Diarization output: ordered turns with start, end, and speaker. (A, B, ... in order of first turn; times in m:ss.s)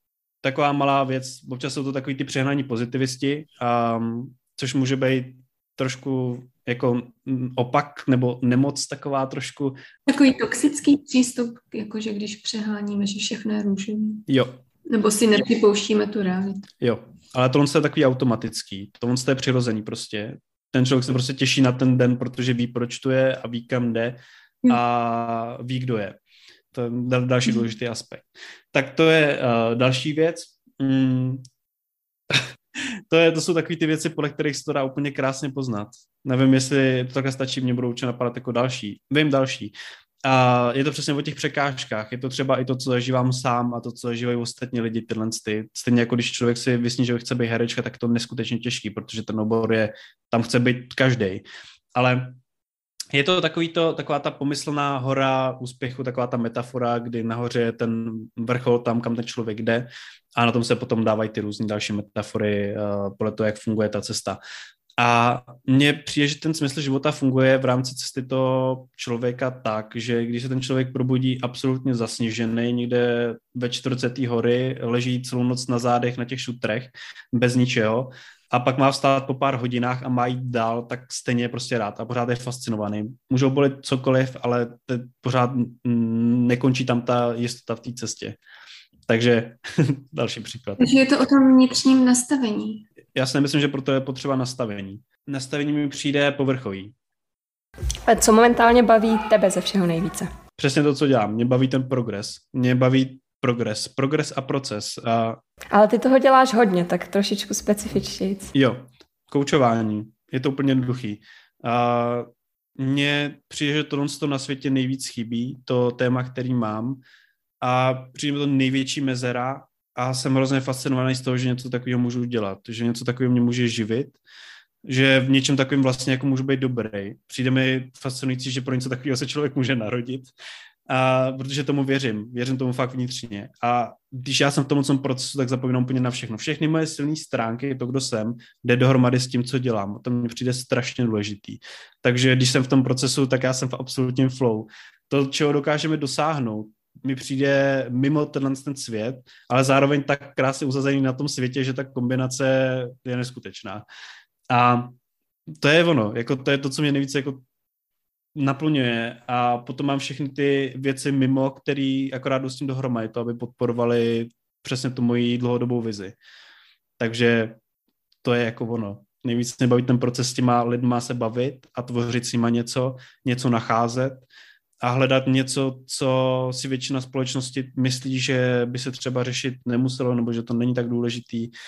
0:00.4-0:09.8 A
0:10.1-0:14.3 B
0:14.3-0:14.6 A
0:14.9-0:16.7 B
0:16.8-0:24.2 A
0:24.7-0:26.2 A
0:26.7-0:31.4 A
0:32.3-0:39.7 A
0:40.2-0:52.4 A
0:53.1-1:04.4 A
1:05.0-1:28.4 A
1:29.1-1:30.9 A
1:30.8-1:32.8 B
1:33.2-1:37.0 A
1:38.1-1:40.3 C
1:40.6-1:45.4 A
1:45.7-1:48.5 C
1:48.5-1:57.0 A
1:57.6-2:04.2 A
2:04.9-2:10.3 A
2:10.9-2:33.8 A
2:34.5-2:35.0 A
2:35.5-2:37.4 A
2:38.4-2:46.2 A
2:47.0-2:47.6 A
2:48.2-2:54.3 A
2:54.8-3:01.5 A